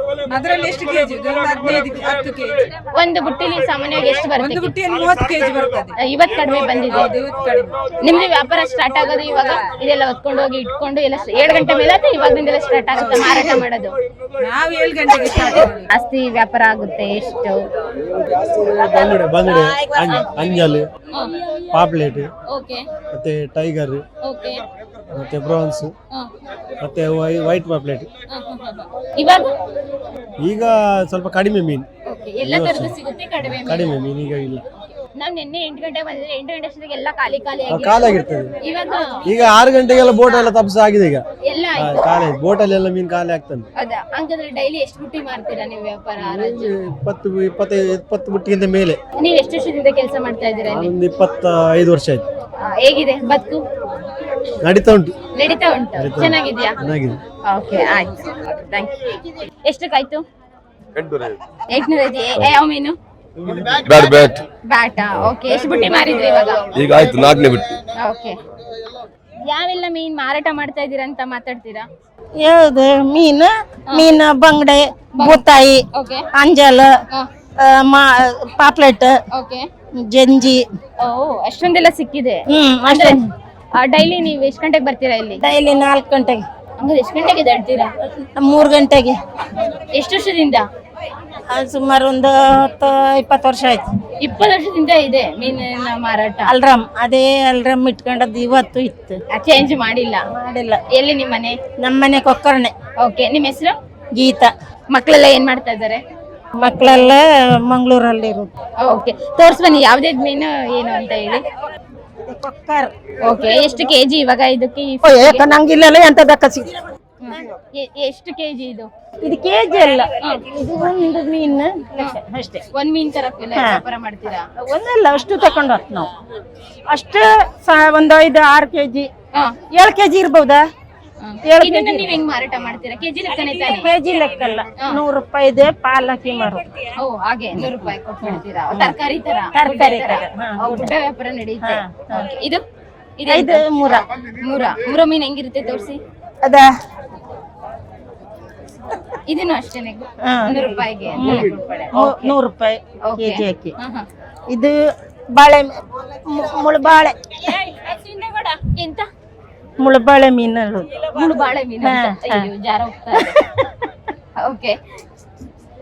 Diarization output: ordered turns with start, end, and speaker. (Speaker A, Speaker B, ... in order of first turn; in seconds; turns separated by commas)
Speaker A: 0.3-2.7, Speaker B: 2.9-4.7, Speaker A: 4.4-5.9, Speaker B: 6.0-7.1, Speaker A: 6.9-7.7, Speaker B: 8.0-13.9, Speaker A: 13.0-13.3, Speaker A: 14.4-15.9, Speaker B: 15.9-17.6, Speaker C: 18.0-20.9, Speaker C: 21.7-22.3, Speaker B: 22.5-22.8, Speaker C: 23.1-24.0, Speaker B: 24.2-24.6, Speaker C: 25.1-25.9, Speaker C: 26.8-28.1, Speaker B: 28.3-29.4, Speaker C: 30.4-31.9, Speaker B: 32.0-34.0, Speaker C: 32.4-32.9, Speaker C: 33.5-34.6, Speaker B: 35.1-39.2, Speaker C: 37.7-38.5, Speaker C: 39.2-41.2, Speaker B: 41.5-42.1, Speaker C: 41.8-43.6, Speaker B: 43.8-46.7, Speaker C: 46.2-49.0, Speaker B: 49.2-50.9, Speaker C: 50.7-52.2, Speaker B: 52.6-53.6, Speaker C: 54.6-55.1, Speaker B: 55.3-56.7, Speaker C: 56.0-57.2, Speaker B: 57.5-59.1, Speaker B: 59.6-60.2, Speaker D: 61.0-61.4, Speaker B: 61.7-63.0, Speaker D: 63.8-64.4, Speaker B: 64.7-67.3, Speaker D: 66.8-67.7, Speaker B: 68.0-68.4, Speaker B: 69.4-71.9, Speaker E: 72.4-75.8, Speaker B: 75.2-75.4, Speaker B: 75.9-76.2, Speaker E: 76.3-76.9, Speaker E: 77.6-79.2, Speaker B: 79.3-79.7, Speaker E: 80.0-80.6, Speaker B: 81.0-83.2, Speaker E: 82.5-83.2, Speaker B: 83.8-85.4, Speaker E: 85.4-86.4, Speaker B: 86.8-87.9, Speaker E: 88.3-89.2, Speaker B: 89.9-90.6, Speaker E: 91.5-93.9, Speaker B: 94.2-96.5, Speaker E: 96.5-99.2, Speaker B: 99.3-100.2, Speaker E: 100.3-100.8, Speaker B: 100.9-101.5, Speaker E: 101.8-102.7, Speaker B: 103.0-103.7, Speaker E: 104.1-104.5, Speaker B: 104.9-106.0, Speaker E: 106.6-108.5, Speaker B: 106.8-107.1, Speaker B: 108.8-111.4, Speaker E: 112.2-112.9, Speaker B: 113.2-115.5, Speaker E: 115.0-116.7, Speaker B: 117.2-118.9, Speaker E: 119.2-122.6, Speaker B: 122.7-124.5, Speaker E: 124.6-126.1, Speaker E: 126.9-129.1, Speaker E: 129.7-130.6, Speaker B: 131.2-133.9, Speaker E: 131.4-132.2, Speaker E: 133.5-136.6, Speaker B: 137.0-142.6, Speaker E: 137.6-138.9, Speaker E: 139.5-140.9, Speaker E: 141.7-142.2, Speaker B: 143.2-146.0, Speaker E: 143.3-144.0, Speaker B: 149.2-152.3, Speaker E: 150.2-150.6, Speaker E: 151.2-153.7, Speaker B: 153.1-154.1, Speaker E: 155.3-155.7, Speaker E: 156.3-157.5, Speaker B: 157.5-159.1, Speaker E: 159.8-160.9, Speaker B: 161.1-163.4, Speaker E: 161.8-162.5, Speaker B: 164.4-164.7